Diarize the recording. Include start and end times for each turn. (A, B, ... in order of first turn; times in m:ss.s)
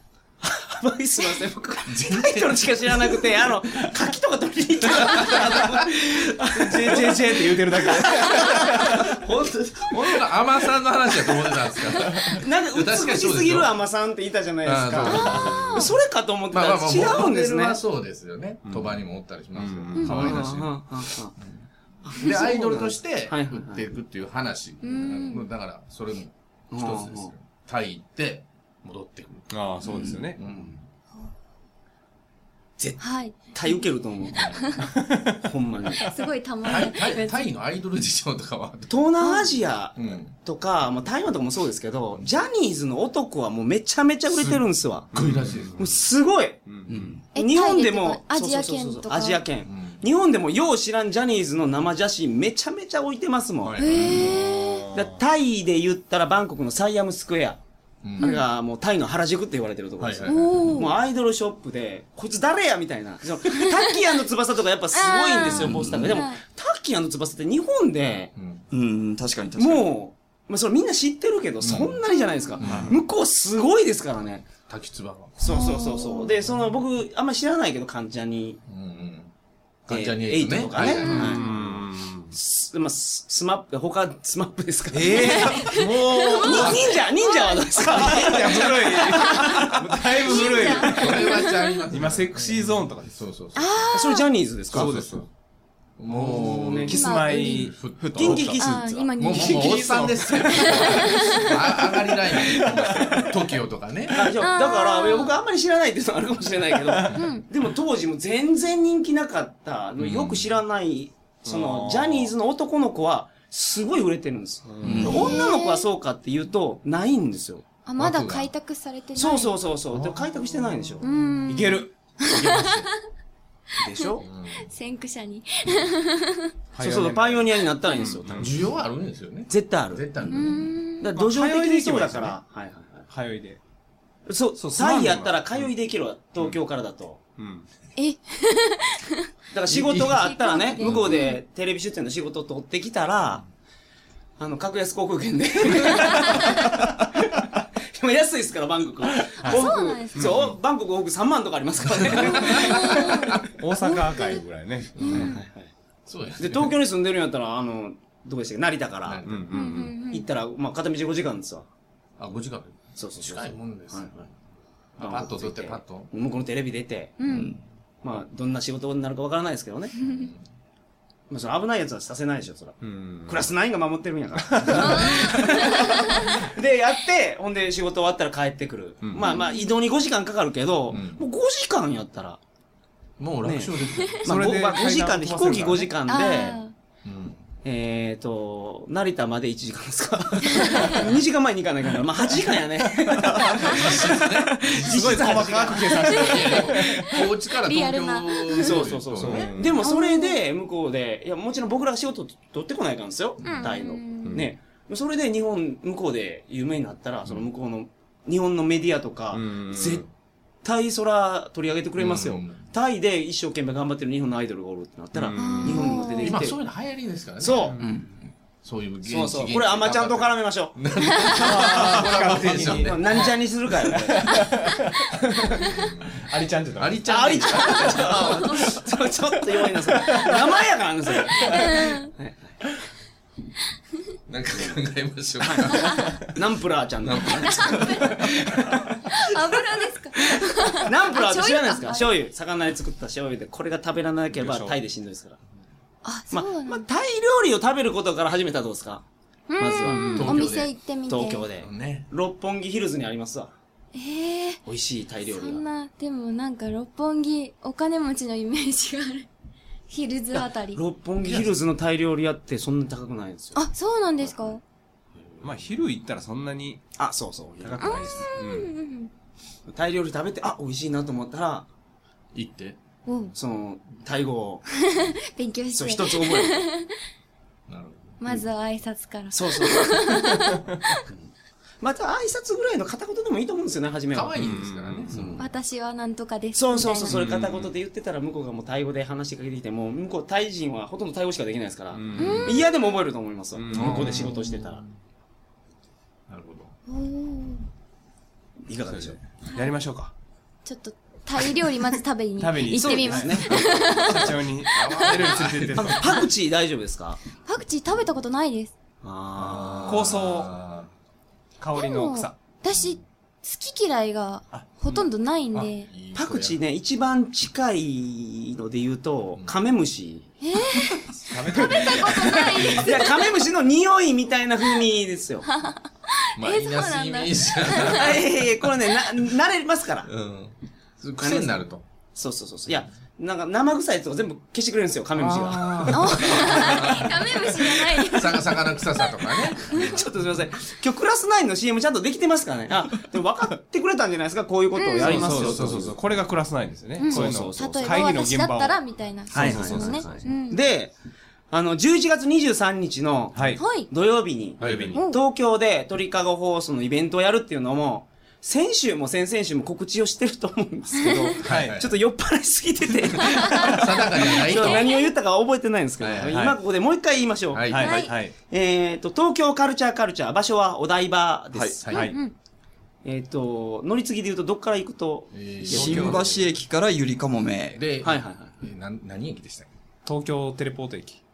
0:00.4-0:09.3 A
0:01.9-0:03.5 B
0:04.8-0:06.1 B
0:06.6-0:09.2 C
0:08.6-0:13.7 B
0:09.9-0:10.2 A
0:12.3-0:17.8 A
0:14.6-0:15.9 B
0:15.1-0:15.8 C
0:16.5-0:20.9 B
0:18.6-0:19.0 C
0:19.5-0:20.5 C
0:20.0-0:20.3 D
0:20.1-0:21.3 A
0:22.0-0:23.8 A
0:22.1-0:29.6 B
0:24.8-0:25.5 D
0:26.7-0:27.3 A
0:29.5-0:30.4 C
0:30.1-0:30.7 B
0:30.4-0:30.8 A
0:32.8-0:34.7 A
0:33.0-0:34.8 D
0:34.3-0:34.8 B
0:35.0-0:35.4 C
0:35.4-0:36.0 A
0:36.0-0:37.4 D
0:36.6-0:38.9 B
0:38.9-0:45.1 A
0:39.2-0:39.5 D
0:40.0-0:40.3 B
0:44.3-0:45.9 B
0:45.1-0:46.0 C
0:45.7-0:46.6 A
0:46.6-0:47.2 C
0:47.3-0:53.8 A
0:47.3-0:49.4 D
0:49.6-0:50.0 B
0:53.6-0:54.4 B
0:53.8-0:54.9 D
0:54.0-0:55.2 C
0:54.9-0:57.6 A
0:58.0-0:58.3 B
0:58.2-1:08.3 A
0:58.2-0:58.4 D
1:00.0-1:00.8 B
1:00.2-1:00.9 D
1:04.9-1:06.4 D
1:05.6-1:06.1 E
1:08.3-1:08.6 B
1:08.7-1:09.9 E
1:09.6-1:14.5 A
1:11.6-1:12.0 B
1:12.1-1:12.6 D
1:12.6-1:13.0 B
1:12.6-1:13.0 C
1:14.7-1:15.4 B
1:15.4-1:18.6 A
1:15.4-1:16.4 D
1:18.7-1:19.3 B
1:19.9-1:21.8 B
1:19.9-1:21.5 A
1:20.8-1:21.4 D
1:20.8-1:22.4 C
1:22.3-1:31.0 A
1:24.9-1:26.9 C
1:25.2-1:29.5 D
1:26.5-1:26.9 B
1:27.8-1:33.2 C
1:30.1-1:31.8 D
1:30.7-1:33.9 B
1:33.5-1:34.2 D
1:33.9-1:34.9 A
1:34.7-1:35.3 B
1:34.7-1:35.2 C
1:36.0-1:38.6 B
1:36.1-1:37.2 A
1:36.9-1:37.8 C
1:36.9-1:41.7 D
1:38.1-1:39.1 A
1:39.1-1:44.3 B
1:39.2-1:41.1 C
1:42.4-1:43.0 A
1:44.1-1:57.6 A
1:44.4-1:45.4 D
1:46.9-1:47.3 C
1:47.1-1:47.4 D
1:50.0-1:50.5 B
1:51.4-1:52.3 C
1:54.7-1:55.3 C
1:54.8-1:55.3 B
1:54.8-1:55.3 E
1:55.0-1:55.8 D
1:57.8-1:59.6 D
1:58.0-1:58.5 B
1:59.1-2:01.1 A
2:00.0-2:01.0 C
2:01.0-2:03.0 D
2:01.5-2:01.9 C
2:02.3-2:02.9 B
2:03.8-2:04.2 A
2:04.0-2:06.5 D
2:04.2-2:04.7 B
2:06.7-2:08.6 C
2:06.8-2:08.6 A
2:08.4-2:10.7 B
2:09.5-2:13.1 A
2:10.3-2:11.1 D
2:11.1-2:12.4 C
2:13.1-2:13.6 C
2:14.3-2:17.2 A
2:14.6-2:15.7 C
2:17.4-2:17.7 C
2:18.0-2:19.3 D
2:19.5-2:23.4 A
2:19.7-2:21.1 B
2:20.1-2:21.4 D
2:24.4-2:33.1 A
2:29.4-2:30.6 C
2:29.4-2:30.4 D
2:31.8-2:33.4 B
2:32.1-2:35.0 C
2:32.5-2:34.4 D
2:35.0-2:35.4 B
2:35.0-2:35.4 D
2:35.1-2:35.7 A
2:36.1-2:36.7 B
2:36.4-2:39.3 A
2:39.0-2:39.9 B
2:39.2-2:40.0 C
2:39.5-2:40.2 D
2:40.1-2:41.7 A
2:42.2-2:44.2 B
2:43.0-2:44.3 A
2:45.0-2:46.1 B
2:45.0-2:47.2 A
2:47.2-2:47.5 D
2:47.3-2:47.6 E
2:48.0-2:49.9 A
2:50.0-2:50.2 D
2:50.0-2:50.4 B
2:51.3-3:02.4 A
2:52.8-2:53.5 C
2:54.4-2:56.4 C
2:54.6-2:55.1 B
2:54.7-2:56.3 D
2:59.0-2:59.3 C
2:59.2-2:59.7 D
3:00.9-3:01.2 B
3:03.2-3:04.5 B
3:03.4-3:06.6 A
3:04.2-3:05.9 C
3:06.1-3:06.7 D
3:07.0-3:07.4 B
3:07.6-3:16.5 A
3:10.5-3:10.9 D
3:13.3-3:13.9 C
3:13.6-3:15.3 B
3:14.7-3:17.1 C
3:16.0-3:20.4 D
3:16.2-3:19.5 B
3:18.6-3:30.0 A
3:19.2-3:19.8 C
3:23.4-3:23.7 B
3:23.4-3:24.4 D
3:24.2-3:24.5 C
3:29.3-3:30.1 C
3:30.6-3:36.6 A
3:32.0-3:32.6 B
3:35.1-3:36.0 C
3:35.3-3:36.4 D
3:36.2-3:37.8 B
3:37.4-3:37.8 A
3:37.7-3:37.9 C
3:37.8-3:38.1 E
3:38.6-3:43.3 B
3:39.0-3:44.2 A
3:41.0-3:41.5 D
3:41.4-3:43.3 C
3:43.9-3:48.6 C
3:45.6-3:48.6 B
3:47.0-3:52.6 A
3:49.8-3:50.3 C
3:51.3-3:51.7 B
3:51.5-3:52.1 D
3:54.3-3:56.2 B
3:55.4-3:58.2 A
3:55.7-3:56.2 D
3:57.0-3:59.2 B
3:57.4-3:58.4 D
3:58.9-4:02.1 D
4:00.2-4:05.4 A
4:04.4-4:04.8 C
4:06.0-4:06.8 D
4:06.3-4:09.0 A
4:09.5-4:11.4 D
4:09.6-4:10.3 A
4:09.8-4:10.3 C
4:10.0-4:10.7 B
4:11.1-4:13.5 A
4:11.6-4:12.1 B
4:13.9-4:14.6 D
4:14.6-4:15.6 A
4:15.3-4:19.3 D
4:19.9-4:20.8 D
4:20.3-4:23.6 A
4:23.5-4:24.6 D
4:24.2-4:24.6 A
4:25.2-4:25.8 B
4:25.4-4:26.8 C
4:27.0-4:28.2 A
4:27.6-4:28.7 C
4:27.8-4:29.1 D
4:29.7-4:31.7 A
4:32.3-4:32.8 B
4:33.0-4:33.3 D
4:33.3-4:34.6 A
4:34.8-4:36.9 D
4:35.7-4:36.7 A
4:37.7-4:38.2 B
4:38.2-4:41.1 D
4:39.3-4:40.3 A
4:41.8-4:44.6 A
4:44.1-4:45.4 B
4:44.3-4:45.3 C
4:45.1-4:45.5 A
4:45.4-4:47.3 D
4:46.5-4:54.8 A
4:46.9-4:47.7 C
4:51.9-4:52.7 C
4:52.1-4:52.7 D
4:53.5-4:54.4 C
4:53.7-4:54.9 B
4:56.3-4:56.7 B
4:56.9-4:57.7 D
4:58.7-4:59.2 A
4:58.9-5:00.1 C
5:00.6-5:05.5 D
5:02.4-5:06.2 C
5:02.7-5:04.2 A
5:04.7-5:06.0 B
5:05.7-5:07.2 A
5:07.4-5:08.7 D
5:09.0-5:10.2 A
5:09.4-5:10.9 B
5:09.8-5:10.5 C
5:11.6-5:12.4 C
5:11.7-5:15.9 D
5:14.5-5:15.1 C
5:15.5-5:16.6 B
5:16.1-5:20.3 A
5:20.4-5:23.4 D
5:21.3-5:22.8 C
5:21.6-5:25.5 A
5:25.5-5:28.2 D
5:26.4-5:28.4 B
5:27.8-5:30.1 A
5:30.0-5:31.8 B
5:31.2-5:31.6 A
5:32.1-5:36.6 A
5:35.1-5:40.0 B
5:35.9-5:39.9 D
5:39.7-5:46.0 A
5:44.8-5:45.3 D
5:45.0-5:48.8 C
5:45.1-5:46.2 B
5:47.0-5:50.6 D
5:47.0-5:48.2 A
5:49.3-5:50.2 C
5:49.3-5:50.9 A
5:51.5-6:11.8 A
5:53.3-5:53.6 C
5:53.6-5:53.9 D
5:54.6-5:55.0 B
5:54.6-5:55.0 C
5:54.9-5:55.2 D
6:01.4-6:01.9 B
6:01.4-6:01.8 C
6:03.3-6:05.1 D
6:03.6-6:04.9 B
6:06.0-6:06.4 B
6:06.3-6:06.6 C
6:07.5-6:07.9 B
6:07.7-6:08.3 C
6:07.8-6:08.1 D
6:11.6-6:12.1 B
6:11.9-6:12.2 C
6:11.9-6:12.3 D
6:13.0-6:16.2 A
6:15.3-6:16.5 B
6:15.7-6:17.8 E
6:15.7-6:16.4 C
6:17.7-6:19.7 B
6:18.0-6:18.6 A
6:20.0-6:21.2 C